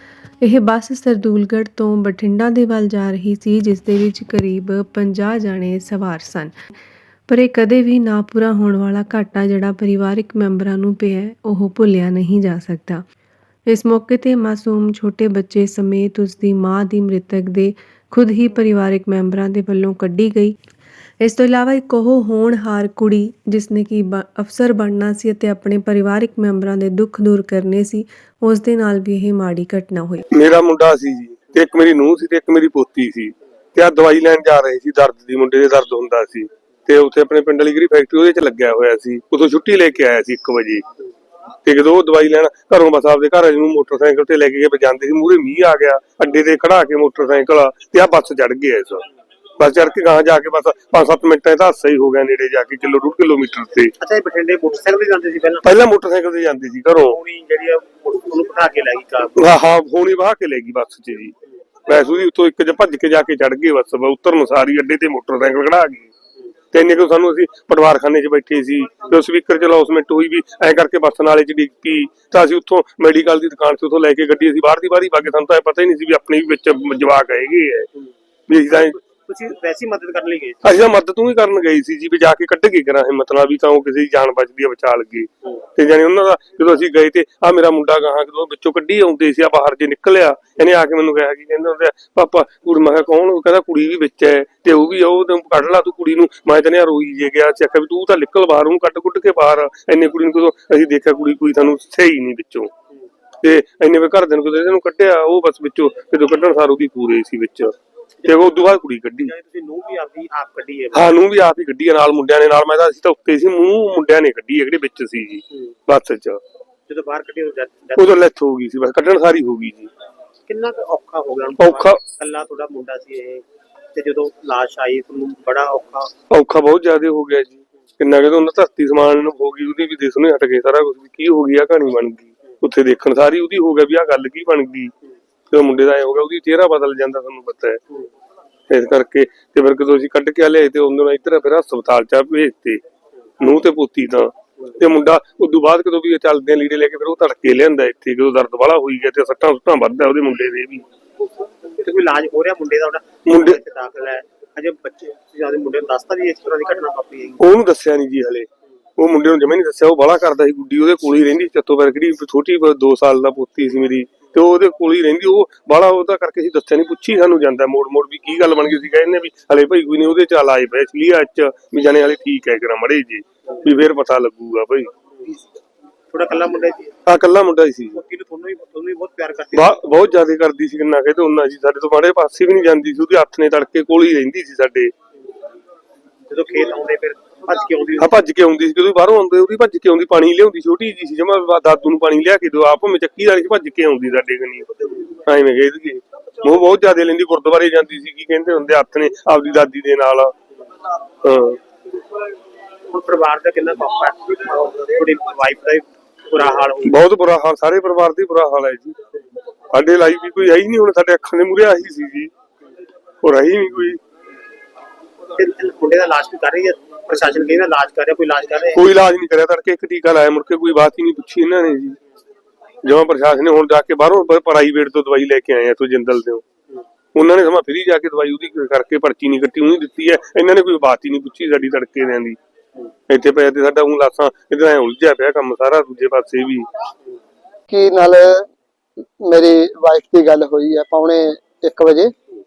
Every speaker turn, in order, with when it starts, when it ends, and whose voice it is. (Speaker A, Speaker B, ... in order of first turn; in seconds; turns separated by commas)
Speaker A: 0.4-6.5, Speaker A: 7.3-13.0, Speaker A: 13.7-20.5, Speaker A: 21.2-30.2, Speaker B: 30.3-40.8, Speaker B: 41.6-49.0, Speaker B: 49.6-53.9, Speaker C: 54.0-55.7, Speaker B: 55.6-57.2, Speaker C: 57.0-59.4, Speaker B: 59.4-61.3, Speaker B: 61.9-66.1, Speaker B: 66.7-77.9, Speaker B: 78.5-78.9, Speaker C: 78.7-80.7, Speaker B: 80.6-102.7, Speaker B: 103.4-107.7, Speaker B: 108.2-109.3, Speaker C: 109.2-111.1, Speaker B: 110.9-116.4, Speaker C: 116.9-118.1, Speaker B: 118.0-119.9, Speaker C: 120.5-126.1, Speaker B: 121.6-122.0, Speaker B: 126.3-134.9, Speaker B: 135.5-137.8, Speaker B: 138.7-142.8, Speaker B: 143.4-150.8, Speaker C: 151.8-157.4, Speaker B: 153.2-153.6, Speaker B: 157.4-174.9, Speaker C: 176.1-176.9, Speaker B: 177.1-178.0, Speaker C: 177.9-179.7, Speaker B: 179.5-184.9, Speaker C: 186.3-188.1, Speaker B: 188.0-200.3, Speaker B: 201.2-201.6, Speaker C: 202.9-206.9, Speaker B: 206.8-209.0, Speaker B: 209.7-212.3, Speaker B: 213.2-214.0, Speaker C: 215.3-218.8, Speaker B: 218.8-222.0, Speaker B: 222.8-226.4, Speaker B: 227.1-232.4, Speaker B: 233.1-236.7, Speaker D: 237.7-238.4, Speaker D: 239.2-242.1